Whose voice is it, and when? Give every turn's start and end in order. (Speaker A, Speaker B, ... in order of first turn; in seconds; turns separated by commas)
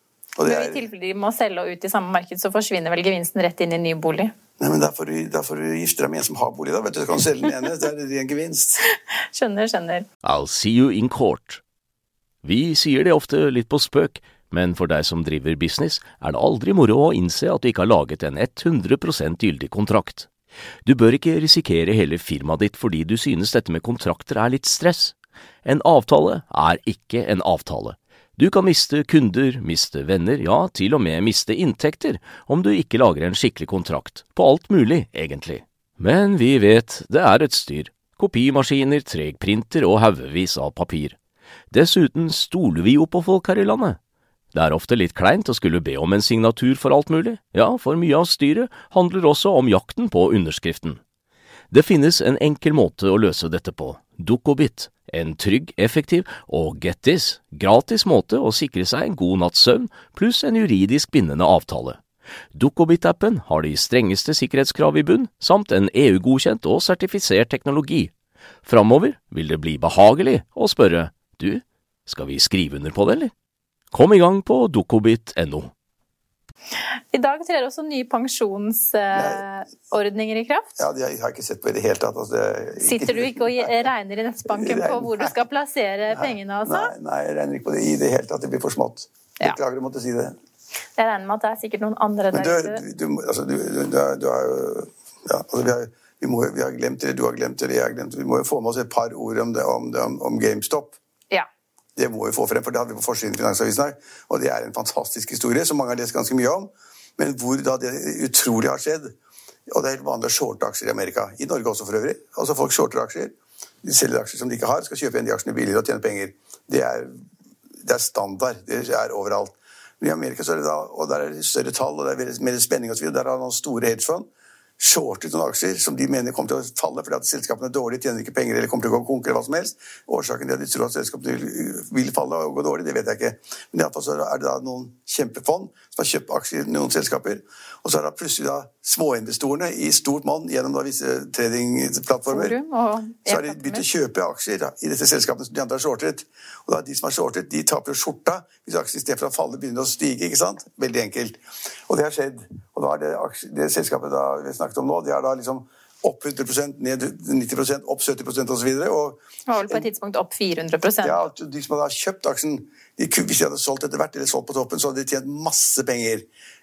Speaker A: 0.4-0.8, Speaker B: 0.5-4.3, Speaker A: 4.6-8.8, Speaker B: 9.3-10.1, Speaker C: 10.2-11.6, Speaker C: 12.4-20.3, Speaker C: 20.9-41.2, Speaker C: 41.7-44.0, Speaker C: 44.5-51.0, Speaker C: 51.7-62.0, Speaker C: 62.5-68.1, Speaker C: 68.7-73.3, Speaker C: 73.9-75.7, Speaker B: 77.1-80.7, Speaker A: 79.1-79.4, Speaker A: 80.8-83.7, Speaker B: 82.8-86.9, Speaker A: 84.5-85.3, Speaker A: 86.1-90.4, Speaker B: 91.0-92.8, Speaker A: 92.3-101.0, Speaker A: 102.0-109.2, Speaker A: 109.7-117.1, Speaker A: 117.8-124.3, Speaker A: 124.8-142.6, Speaker B: 142.3-143.9, Speaker A: 143.3-159.9, Speaker B: 159.5-161.3, Speaker A: 161.0-166.3